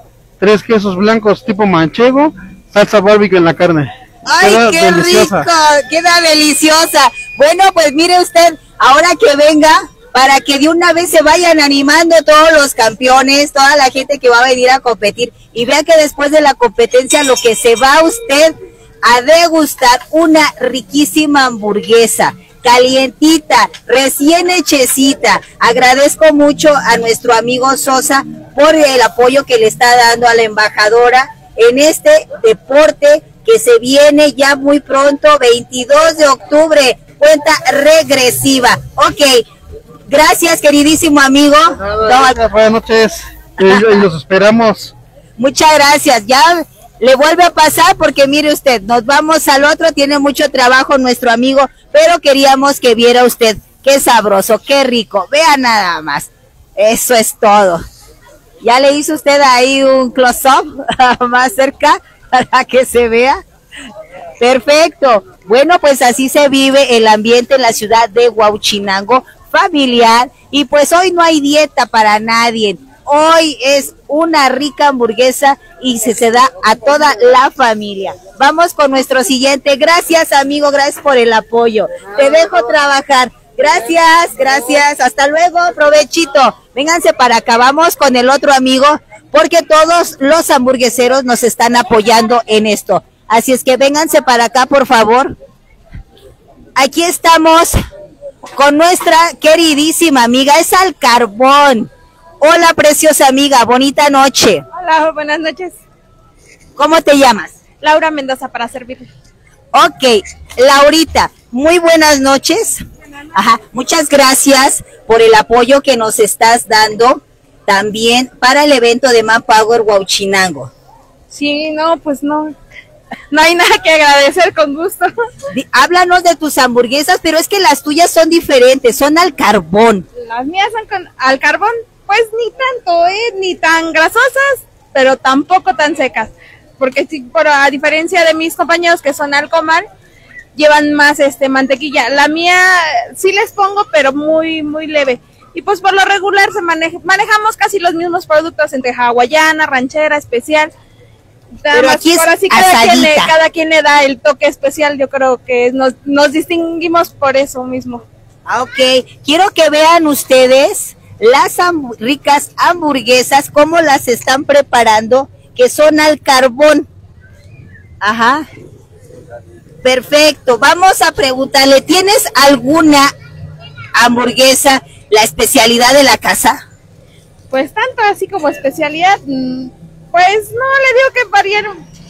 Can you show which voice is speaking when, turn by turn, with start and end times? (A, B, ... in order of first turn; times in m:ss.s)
0:00.4-0:05.5 A
0:04.3-0:39.4 B
0:40.1-0:42.4 B
0:41.8-0:44.9 A
0:43.6-0:44.1 B
0:45.4-0:57.8 B
0:58.6-1:03.4 B
1:04.4-1:35.4 B
1:36.8-1:37.8 B
1:38.6-1:41.9 B
1:42.4-1:44.6 B
1:44.8-1:45.8 C
1:46.8-1:47.6 B
1:47.8-1:49.1 C
1:49.7-1:52.8 B
1:53.4-2:00.7 B
2:01.3-2:02.6 C
2:03.3-2:05.1 C
2:05.5-2:10.1 B
2:10.2-2:19.9 C
2:20.6-2:30.7 C
2:31.6-2:38.0 C
2:31.7-2:33.3 B
2:38.5-2:46.9 B
2:48.0-2:48.4 B
2:49.8-2:53.1 B
2:54.0-2:56.6 B
2:57.5-3:01.8 C